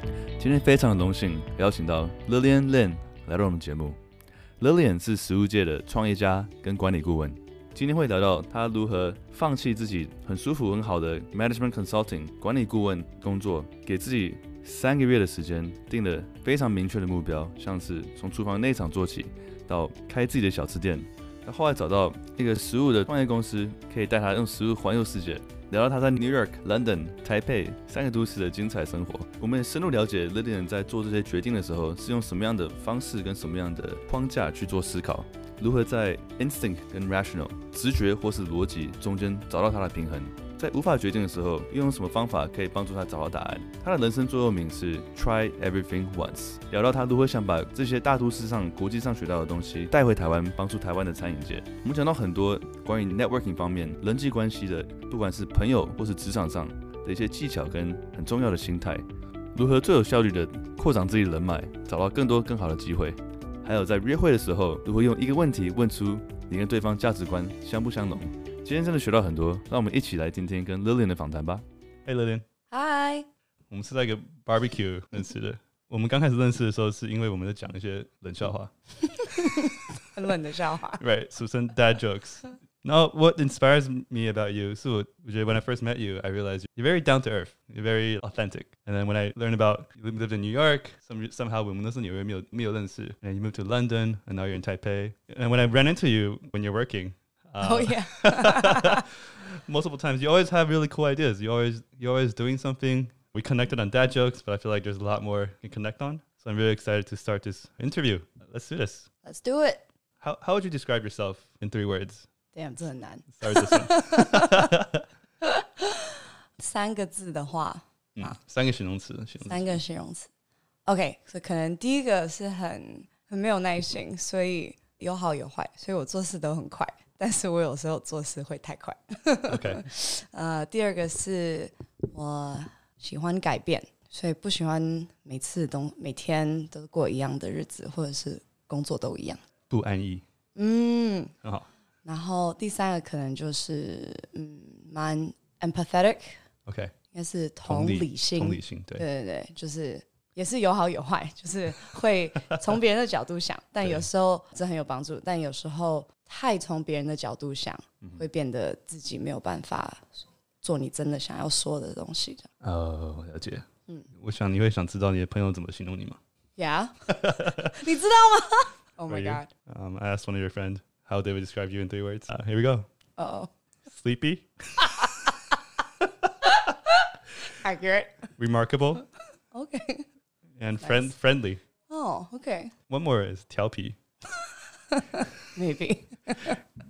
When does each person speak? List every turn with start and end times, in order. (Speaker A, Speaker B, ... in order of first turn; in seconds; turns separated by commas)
Speaker A: 0.4-4.0, Speaker A: 4.6-71.6, Speaker B: 72.0-72.4, Speaker C: 72.7-73.3, Speaker B: 73.7-78.7, Speaker C: 79.1-81.0, Speaker B: 81.0-109.1, Speaker C: 97.6-99.0, Speaker C: 109.2-109.8, Speaker B: 110.2-112.3, Speaker C: 112.5-114.7, Speaker B: 113.4-115.0, Speaker C: 115.4-118.4, Speaker B: 118.2-119.8, Speaker C: 119.4-120.3, Speaker C: 120.8-139.4, Speaker B: 129.5-129.8, Speaker B: 139.7-140.2, Speaker C: 140.6-141.3, Speaker B: 141.4-141.7, Speaker C: 142.0-146.4, Speaker B: 146.7-146.9, Speaker C: 147.1-162.5, Speaker B: 147.6-149.0, Speaker B: 162.6-166.2, Speaker C: 166.6-169.5, Speaker B: 167.1-167.8, Speaker B: 169.1-172.9, Speaker C: 173.2-173.5, Speaker B: 173.8-175.3, Speaker C: 174.8-175.2, Speaker C: 176.4-178.3, Speaker B: 178.4-179.0, Speaker C: 179.5-180.1, Speaker B: 180.6-181.6, Speaker C: 180.8-181.1, Speaker C: 181.9-182.7, Speaker B: 182.9-184.0, Speaker C: 184.9-186.6